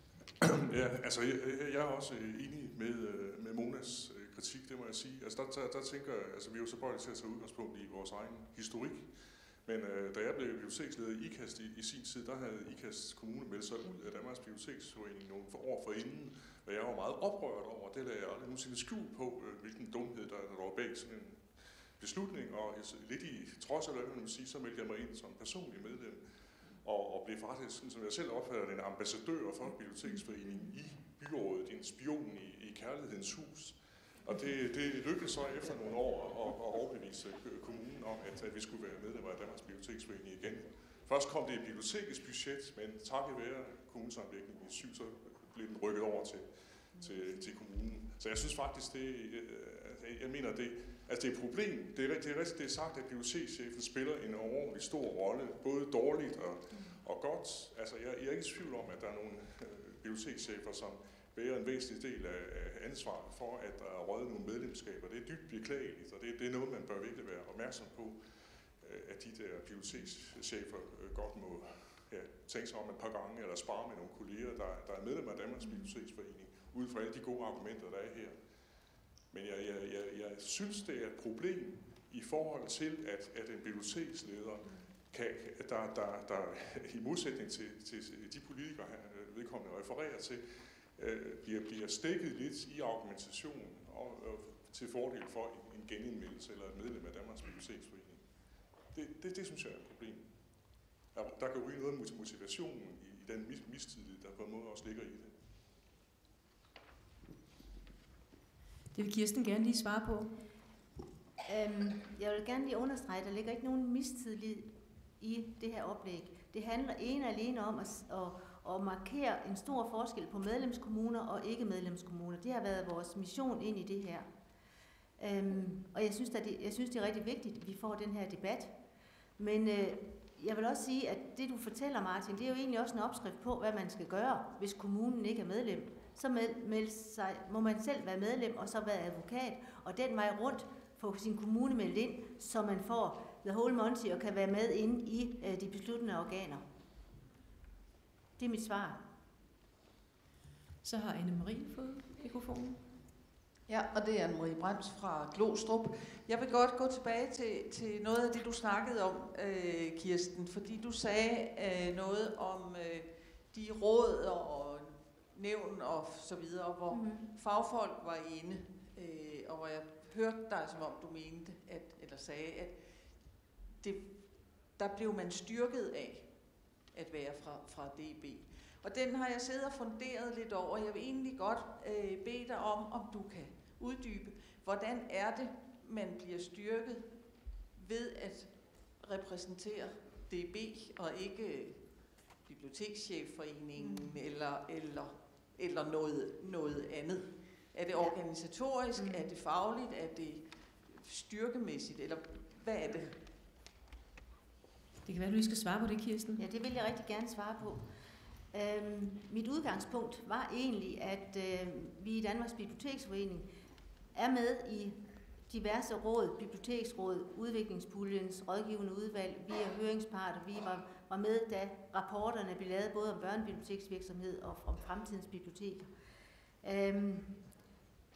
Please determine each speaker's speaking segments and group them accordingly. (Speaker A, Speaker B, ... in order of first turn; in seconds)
Speaker A: 0.4-9.1, 9.6-26.2, 26.8-68.2, 68.8-78.4, 79.3-98.2, 98.9-100.3, 101.1-105.3
Speaker B: 108.9-110.3, 150.8-152.8, 205.1-206.4
Speaker C: 111.5-124.3, 125.2-128.7, 129.4-146.6, 148.4-149.0, 166.9-167.2, 193.8-194.0, 199.0-199.2, 206.4-207.8, 208.5-213.5, 214.1-215.0, 215.5-225.9, 226.6-227.3
Speaker D: 153.7-173.1, 173.8-203.2